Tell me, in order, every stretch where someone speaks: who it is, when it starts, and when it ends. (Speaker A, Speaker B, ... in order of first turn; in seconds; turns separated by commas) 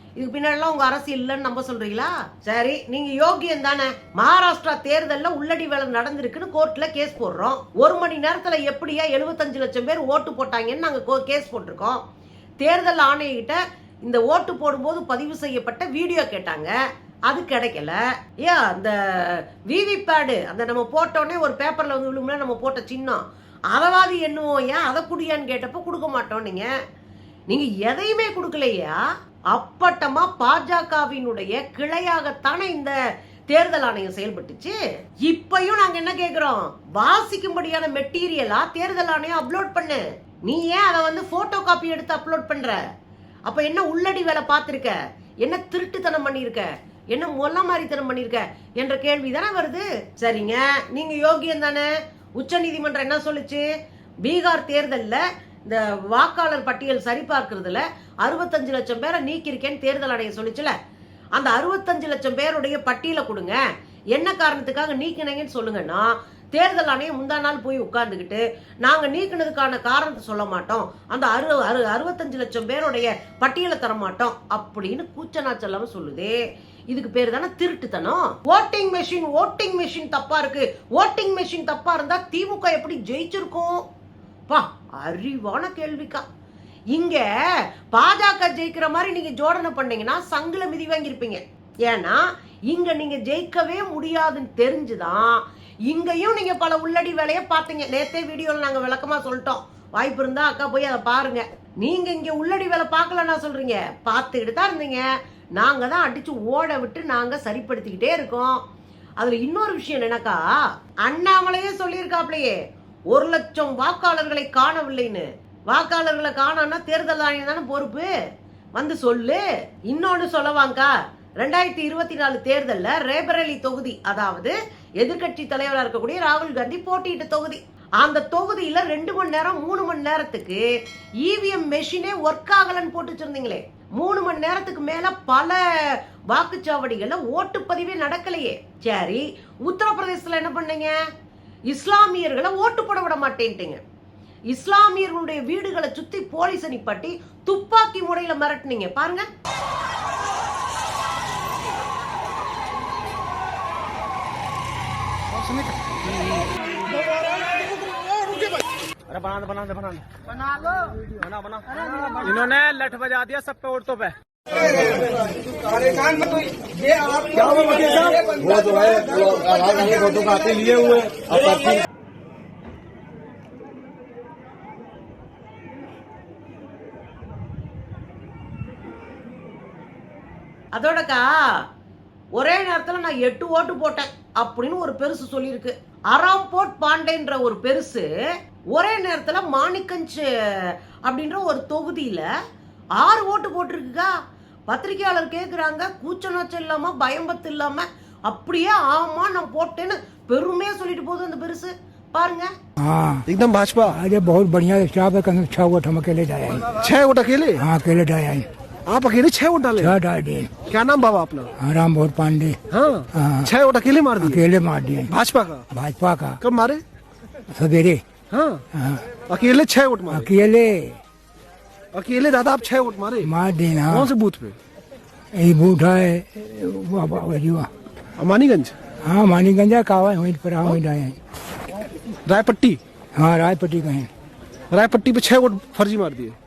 Speaker A: 0.2-12.0, Speaker A: 12.6-16.7, Speaker A: 17.3-26.7, Speaker A: 27.5-29.0, Speaker A: 29.5-32.9, Speaker A: 33.5-42.8, Speaker A: 43.5-53.7, Speaker A: 54.2-60.8, Speaker A: 61.4-63.6, Speaker A: 64.1-83.8, Speaker A: 84.5-86.2, Speaker A: 86.9-87.3, Speaker A: 87.9-105.1, Speaker A: 105.6-108.6, Speaker A: 109.2-110.4, Speaker A: 111.1-112.6, Speaker A: 113.1-118.1, Speaker A: 118.8-130.6, Speaker A: 131.2-141.0, Speaker A: 141.7-143.8, Speaker A: 144.5-149.3, Speaker B: 159.2-160.0, Speaker B: 162.2-164.1, Speaker B: 166.0-166.3, Speaker B: 167.2-171.8, Speaker A: 180.7-181.6, Speaker A: 182.4-188.1, Speaker A: 188.8-192.3, Speaker A: 193.0-194.1, Speaker A: 194.7-202.5, Speaker C: 202.8-203.2, Speaker D: 203.3-204.0, Speaker C: 203.9-206.7, Speaker D: 206.7-207.7, Speaker C: 207.6-208.5, Speaker D: 208.9-210.0, Speaker C: 209.8-210.6, Speaker D: 210.7-211.5, Speaker C: 211.6-212.6, Speaker D: 212.7-214.4, Speaker C: 213.1-213.5, Speaker C: 214.2-215.1, Speaker D: 215.1-215.7, Speaker C: 215.7-216.4, Speaker D: 216.4-216.8, Speaker C: 217.6-218.0, Speaker D: 218.3-218.6, Speaker C: 218.7-219.0, Speaker D: 219.3-220.3, Speaker C: 220.1-221.0, Speaker D: 221.9-223.3, Speaker C: 223.2-224.1, Speaker D: 223.9-224.6, Speaker C: 225.4-227.7, Speaker D: 228.2-228.7, Speaker C: 229.1-231.2, Speaker D: 232.3-232.8, Speaker C: 233.2-234.1, Speaker D: 234.7-236.4